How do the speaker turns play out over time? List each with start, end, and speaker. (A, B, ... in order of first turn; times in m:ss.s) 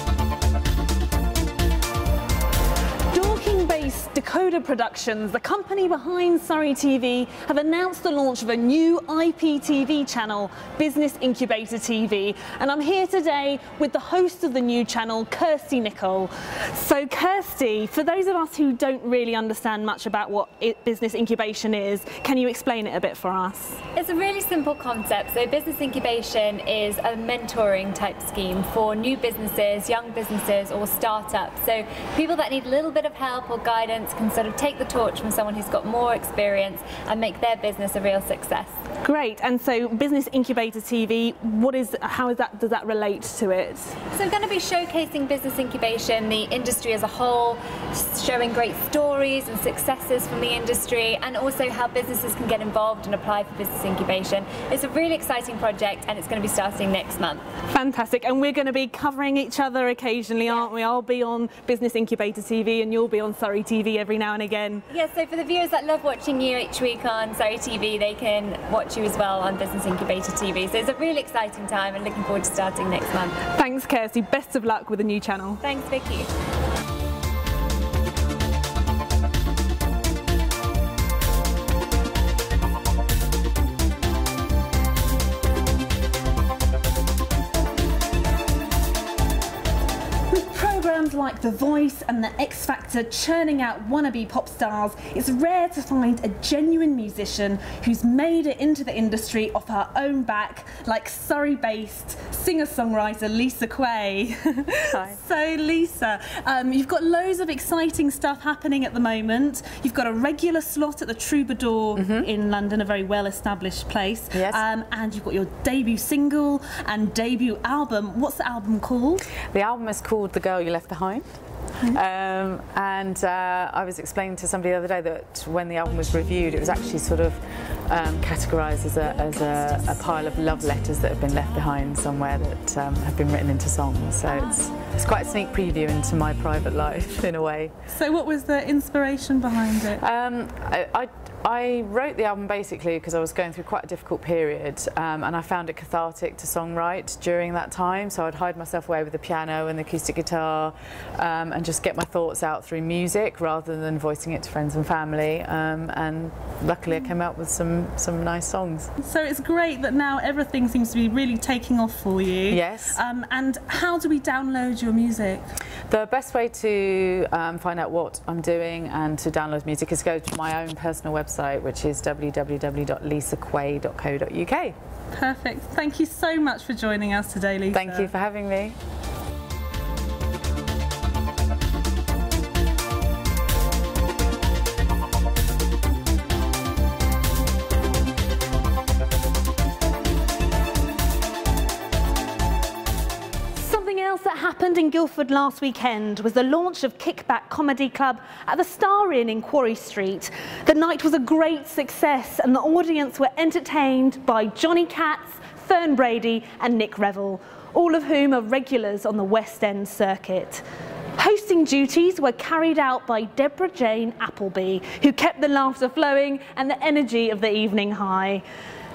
0:03.1-0:23.8 A
0:23.9-0:38.7 B
0:39.0-0:43.9 A
0:44.1-0:57.4 B
0:57.7-1:04.8 A
1:04.9-1:13.4 B
1:13.5-1:15.6 A
1:15.6-1:16.3 B
1:30.3-1:59.2 A
1:52.0-1:52.3 C
1:54.3-1:54.6 C
1:59.5-2:01.2 C
2:01.9-2:17.7 C
2:17.9-2:20.0 A
2:20.0-2:38.9 C
2:39.0-2:45.5 A
2:42.5-2:43.0 C
2:45.9-2:54.7 C
2:55.1-2:58.1 A
2:57.7-2:58.8 C
3:13.5-3:30.6 A
3:31.2-3:38.4 A